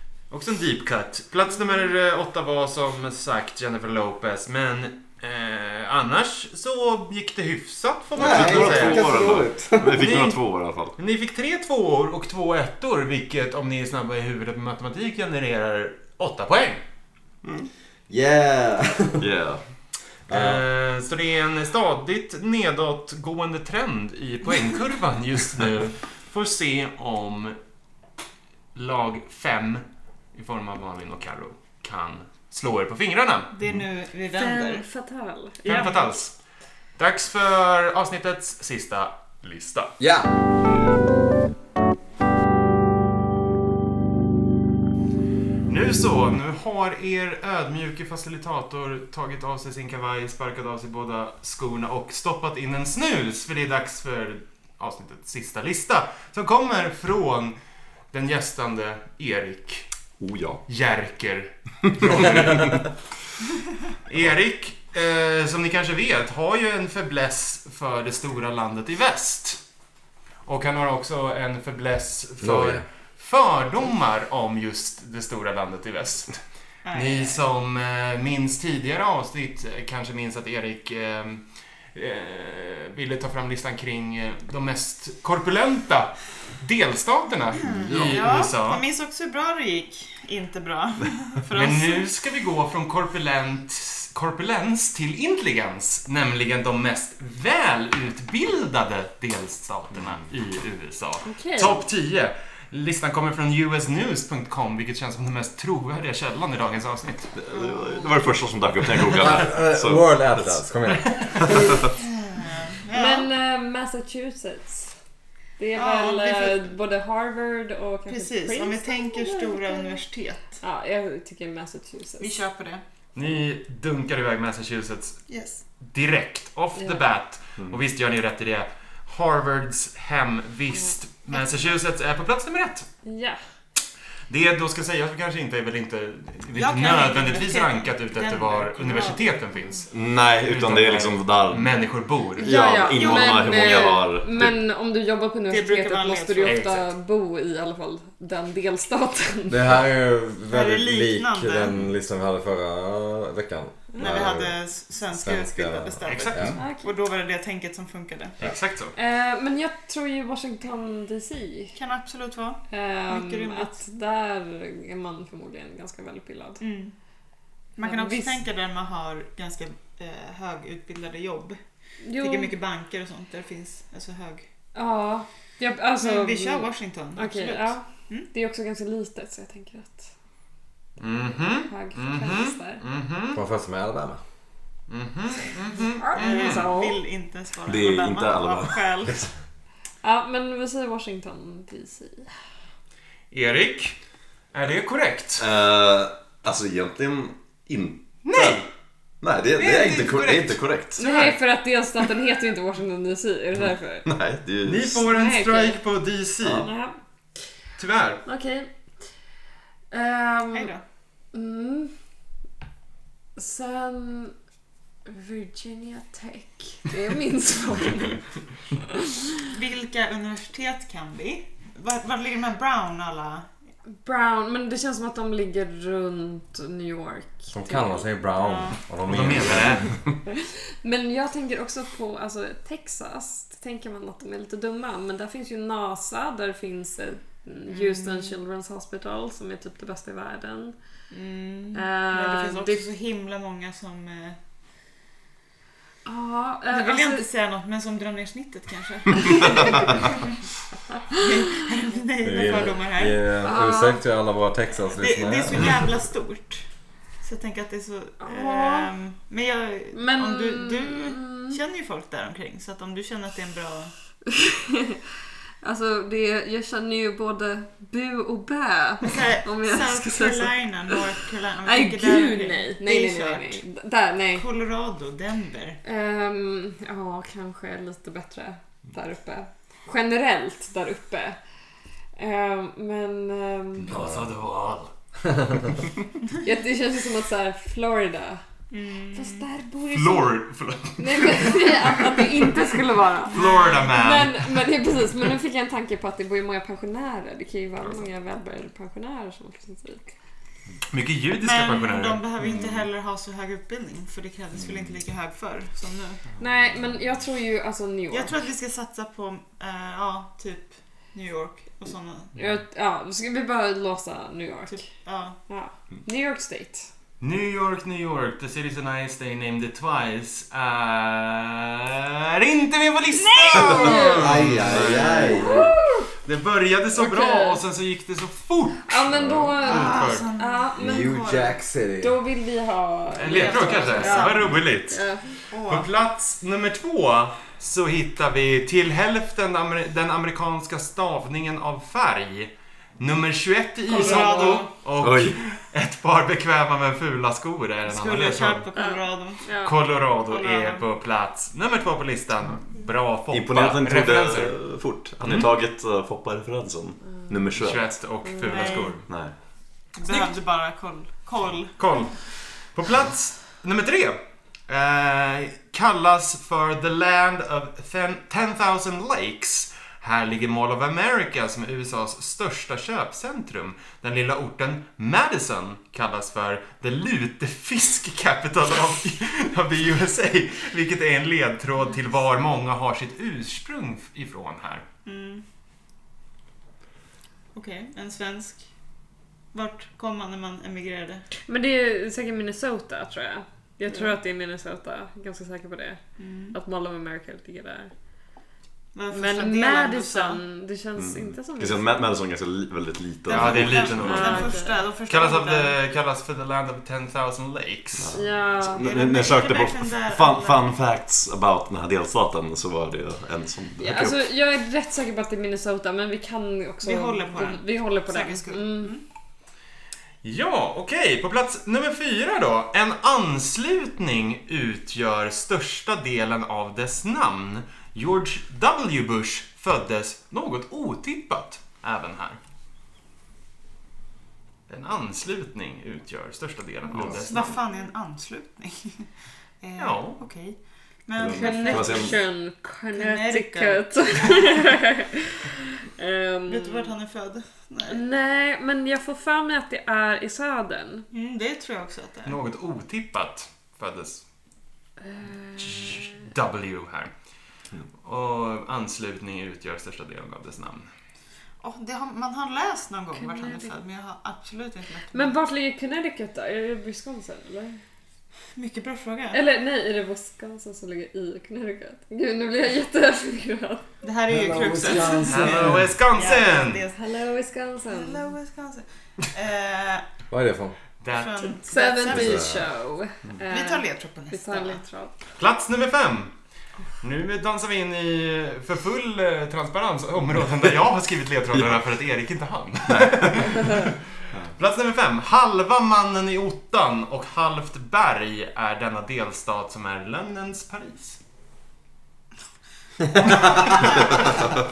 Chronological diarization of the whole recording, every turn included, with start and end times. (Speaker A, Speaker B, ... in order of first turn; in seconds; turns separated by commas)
Speaker A: 0.3-9.4, Speaker B: 8.2-10.2, Speaker C: 8.2-10.9, Speaker A: 9.9-10.4, Speaker A: 11.0-16.8, Speaker B: 18.1-19.3, Speaker C: 19.2-19.6, Speaker B: 20.3-20.6, Speaker A: 20.3-27.6, Speaker A: 28.8-33.5, Speaker D: 33.5-34.9, Speaker E: 34.3-36.0, Speaker A: 35.6-36.3, Speaker D: 35.7-36.0, Speaker A: 37.0-39.9, Speaker B: 40.0-40.3, Speaker A: 45.7-57.6, Speaker A: 58.1-59.9, Speaker C: 60.2-60.6, Speaker A: 60.7-62.9, Speaker A: 64.1-69.6, Speaker A: 70.5-76.4, Speaker B: 72.4-72.8, Speaker D: 76.8-77.4, Speaker A: 76.9-88.8, Speaker D: 87.6-92.1, Speaker C: 87.8-88.2, Speaker A: 91.5-107.3, Speaker C: 100.0-100.2, Speaker E: 101.2-101.8, Speaker C: 107.3-110.6, Speaker D: 107.6-108.0, Speaker B: 109.2-111.7, Speaker C: 111.4-111.9, Speaker D: 112.0-113.3, Speaker E: 112.9-114.9, Speaker E: 115.6-120.0, Speaker D: 115.8-116.7, Speaker D: 118.1-120.6, Speaker E: 120.6-122.4, Speaker D: 122.2-122.8, Speaker A: 123.2-125.2, Speaker D: 125.3-125.6, Speaker A: 125.8-132.9, Speaker E: 126.8-127.1, Speaker E: 133.1-133.4, Speaker A: 134.3-142.6, Speaker D: 136.5-139.2, Speaker C: 139.9-141.7, Speaker E: 142.4-149.7, Speaker C: 142.4-144.6, Speaker D: 142.9-144.0, Speaker D: 145.5-146.7, Speaker A: 146.4-146.9, Speaker B: 149.5-154.6, Speaker D: 150.5-151.8, Speaker D: 154.0-158.4, Speaker B: 155.1-156.6, Speaker A: 156.1-156.6, Speaker E: 156.6-156.9, Speaker A: 158.4-158.9, Speaker E: 159.0-161.8, Speaker D: 161.8-163.8, Speaker E: 162.7-166.6, Speaker D: 166.6-166.9, Speaker D: 167.8-171.6, Speaker E: 167.8-168.4, Speaker E: 172.0-172.5, Speaker D: 172.2-174.5, Speaker E: 174.8-180.1, Speaker D: 176.0-178.3, Speaker A: 181.0-183.4, Speaker E: 181.7-182.8, Speaker B: 183.3-184.2, Speaker A: 184.9-186.7, Speaker E: 186.0-187.0, Speaker D: 186.1-189.3, Speaker C: 187.7-189.1, Speaker E: 190.0-192.3, Speaker A: 193.3-194.0, Speaker A: 194.5-195.5, Speaker C: 195.4-198.6, Speaker A: 198.2-198.7, Speaker C: 199.2-201.0, Speaker A: 199.6-201.4, Speaker D: 199.8-200.2, Speaker E: 201.0-204.1, Speaker C: 204.0-205.1, Speaker A: 204.6-206.7, Speaker E: 205.1-205.8, Speaker E: 206.6-207.0, Speaker A: 207.8-208.2, Speaker E: 208.3-208.7, Speaker E: 209.9-210.7, Speaker D: 210.5-210.8, Speaker E: 211.3-211.9, Speaker E: 213.4-214.3, Speaker E: 215.1-218.2, Speaker E: 218.8-219.2, Speaker D: 219.5-223.5, Speaker E: 223.9-228.1, Speaker B: 227.5-230.0, Speaker D: 228.4-228.8, Speaker A: 229.1-229.9, Speaker E: 230.3-240.8, Speaker D: 237.7-238.4, Speaker D: 241.1-244.4, Speaker E: 241.7-242.8, Speaker E: 246.1-247.3, Speaker D: 246.7-250.3, Speaker E: 249.4-249.7, Speaker D: 251.1-253.2, Speaker B: 252.2-255.8, Speaker E: 253.4-254.0, Speaker D: 255.0-256.6, Speaker D: 257.2-263.9, Speaker E: 258.2-258.9, Speaker E: 259.9-261.6, Speaker E: 264.3-265.0, Speaker E: 265.6-271.1, Speaker D: 269.0-273.6, Speaker E: 271.6-274.5, Speaker D: 274.4-275.8, Speaker E: 275.8-281.4, Speaker E: 282.2-284.0, Speaker A: 283.9-284.9, Speaker E: 286.4-288.4, Speaker D: 288.7-289.5, Speaker E: 289.1-290.4, Speaker A: 289.9-292.5, Speaker E: 291.0-300.1, Speaker D: 293.3-293.9, Speaker A: 293.3-294.6, Speaker A: 300.9-302.2, Speaker D: 301.4-306.2, Speaker E: 306.4-308.3, Speaker D: 308.1-312.3, Speaker E: 312.4-314.9, Speaker D: 314.7-315.4, Speaker E: 315.5-316.9, Speaker A: 317.2-325.6, Speaker E: 323.2-324.3, Speaker D: 323.4-324.0, Speaker B: 324.1-325.7, Speaker C: 324.4-325.3, Speaker E: 325.3-326.1, Speaker A: 326.2-330.3, Speaker E: 326.9-327.6, Speaker E: 328.9-331.4, Speaker B: 329.2-329.6, Speaker D: 329.6-331.6, Speaker B: 330.8-332.2, Speaker E: 332.0-335.4, Speaker A: 333.2-348.7, Speaker D: 333.2-334.6, Speaker D: 335.5-335.9, Speaker D: 343.9-344.7, Speaker E: 343.9-344.7, Speaker C: 345.0-345.4, Speaker D: 347.9-349.5, Speaker E: 348.8-349.8, Speaker A: 349.6-354.6, Speaker D: 350.3-350.8, Speaker C: 353.3-357.8, Speaker A: 355.2-355.5, Speaker A: 357.6-359.1, Speaker E: 358.2-358.9, Speaker D: 358.5-359.0, Speaker C: 359.1-359.3, Speaker D: 359.9-361.8, Speaker A: 361.8-384.9, Speaker D: 385.1-385.4, Speaker D: 387.5-388.7, Speaker D: 389.5-391.3, Speaker E: 391.5-396.0, Speaker D: 396.2-396.6, Speaker E: 396.5-397.9, Speaker D: 398.9-400.4, Speaker E: 399.1-402.1, Speaker C: 401.0-404.3, Speaker D: 403.3-405.8, Speaker A: 403.3-404.5, Speaker E: 403.9-404.8, Speaker A: 405.1-408.1, Speaker C: 408.0-414.2, Speaker E: 408.1-408.9, Speaker D: 408.8-410.6, Speaker E: 413.8-419.0, Speaker D: 416.8-419.0, Speaker A: 420.2-432.4, Speaker A: 434.7-437.6, Speaker D: 437.1-439.1, Speaker D: 439.6-442.2, Speaker A: 439.8-440.2, Speaker C: 441.2-442.1, Speaker E: 441.3-446.9, Speaker D: 442.9-444.6, Speaker D: 446.5-448.0, Speaker E: 447.9-451.1, Speaker D: 451.1-452.4, Speaker A: 452.2-454.2, Speaker E: 455.0-456.2, Speaker A: 455.6-457.1, Speaker A: 458.1-460.9, Speaker D: 461.6-465.3, Speaker E: 463.2-463.7, Speaker E: 465.1-467.8, Speaker D: 468.6-469.4, Speaker E: 469.3-473.9, Speaker D: 474.0-477.0, Speaker B: 474.3-475.9, Speaker A: 475.2-476.8, Speaker E: 476.9-478.3, Speaker D: 477.9-480.0, Speaker B: 480.3-480.8, Speaker A: 481.0-481.6, Speaker D: 481.1-482.5, Speaker E: 481.7-485.2, Speaker B: 482.1-482.6, Speaker D: 483.4-484.8, Speaker A: 485.4-486.3, Speaker A: 487.0-494.0, Speaker A: 494.6-501.2, Speaker B: 503.3-504.0, Speaker D: 503.4-504.2